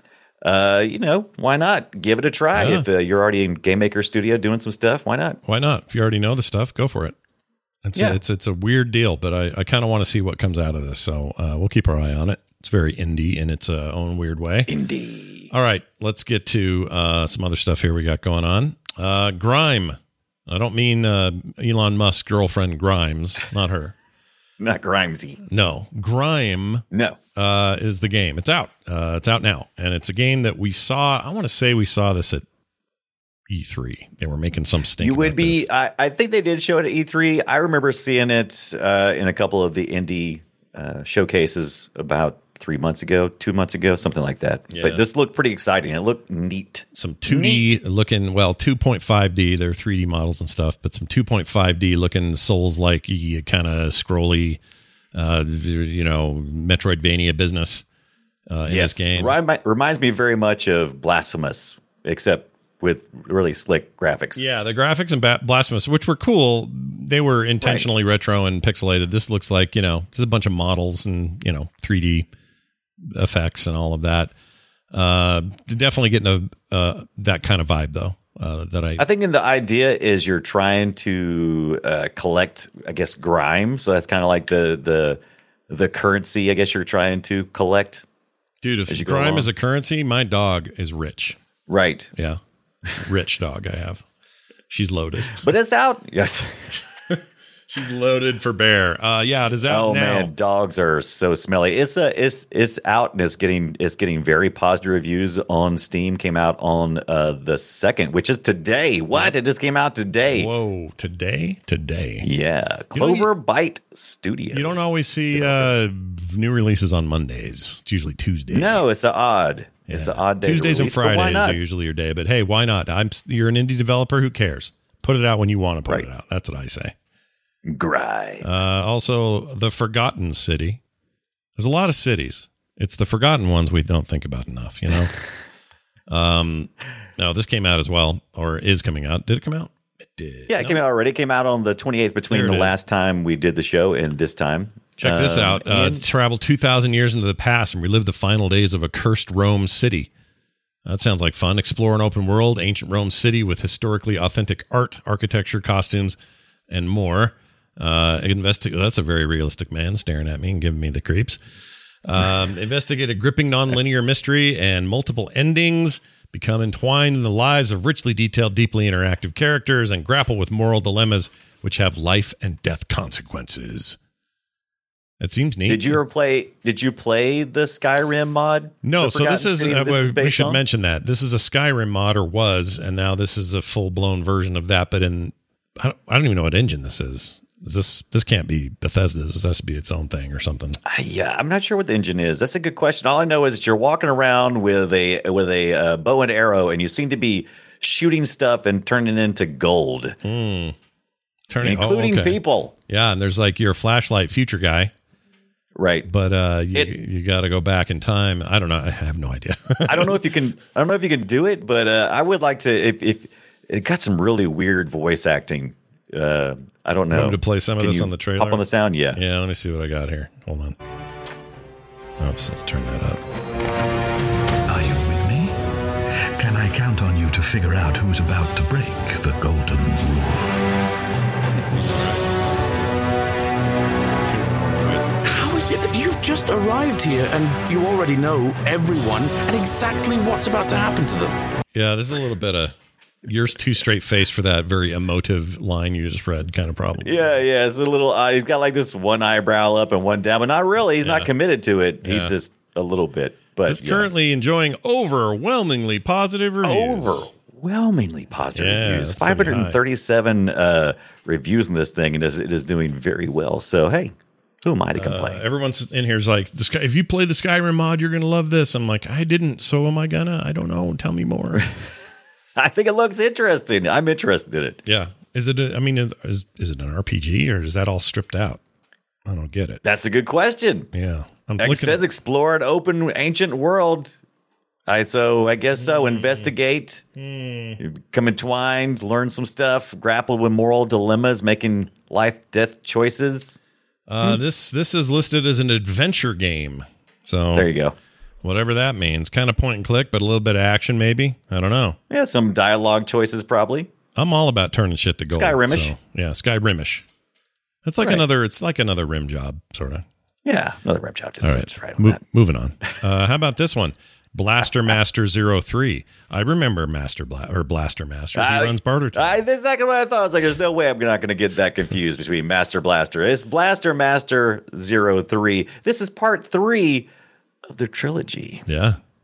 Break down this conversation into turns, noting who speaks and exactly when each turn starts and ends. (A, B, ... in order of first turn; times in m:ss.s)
0:00.4-0:05.4 A
0:02.5-0:02.9 B
0:05.4-0:07.2 B
0:07.8-0:14.7 B
0:14.7-0:15.5 A
0:15.5-0:23.9 B
0:24.6-0:25.4 A
0:25.4-0:26.8 B
0:26.9-0:27.2 A
0:27.4-0:32.4 B
0:33.5-0:35.7 B
0:35.0-0:47.8 A
0:44.7-0:45.0 B
0:46.9-0:54.6 B
0:55.1-0:57.8 B
0:58.5-0:59.3 B
0:58.7-1:04.4 A
1:04.4-1:12.3 B
1:07.6-1:07.9 A
1:13.0-1:14.3 B
1:14.9-1:19.0 B
1:19.0-1:28.0 A
1:28.6-1:31.4 B
1:28.9-1:29.5 A
1:31.7-1:32.1 A
1:33.0-1:34.0 B
1:34.7-1:35.4 B
1:35.3-1:36.7 A
1:37.7-1:40.3 B
1:39.7-1:50.5 A
1:50.3-1:52.3 B
1:52.2-1:55.7 A
1:52.9-1:53.3 B
1:54.5-1:58.8 B
1:58.5-2:01.6 A
1:59.9-2:07.0 B
2:07.6-2:08.4 A
2:08.4-2:10.8 B
2:11.6-2:15.1 B
2:16.1-2:20.8 B
2:20.5-2:26.0 A
2:22.3-2:22.8 B
2:25.0-2:30.1 B
2:30.8-2:36.2 B
2:36.7-2:41.4 B
2:42.0-2:54.0 B
2:55.2-2:56.0 B
2:55.7-3:00.6 A
2:58.8-3:10.8 B
3:10.9-3:20.2 A
3:20.2-3:20.8 B
3:21.5-3:22.4 B
3:21.6-3:22.7 A
3:22.9-3:24.9 B
3:25.8-3:26.1 A
3:26.0-3:30.3 B
3:29.8-3:39.2 A
3:37.1-3:40.8 B
3:42.2-3:43.2 B
3:44.7-3:45.6 C
3:46.4-3:50.5 C
3:51.5-3:52.4 B
3:54.2-3:55.9 B
3:55.3-4:01.4 D
4:01.7-4:07.2 B
4:07.0-4:14.1 A
4:11.0-4:11.3 B
4:12.0-4:12.3 B
4:13.6-4:17.3 B
4:16.6-4:25.4 A
4:18.5-4:19.8 B
4:25.0-4:31.7 B
4:32.6-4:34.8 A
4:34.8-4:38.6 B
4:39.2-4:39.8 B
4:39.8-4:40.9 A
4:40.9-4:42.0 B
4:41.6-4:44.2 A
4:44.9-4:47.0 A
4:45.8-4:46.5 B
4:47.2-4:47.8 B
4:47.8-4:53.6 A
4:54.1-4:57.7 B
4:57.5-4:58.0 A
4:58.4-5:02.0 B
5:02.1-5:03.9 A
5:04.2-5:07.0 B
5:05.3-5:06.0 A
5:07.8-5:10.0 B
5:10.5-5:12.2 A
5:11.4-5:19.4 B
5:18.4-5:27.1 A
5:27.7-5:28.6 A
5:28.6-5:29.0 B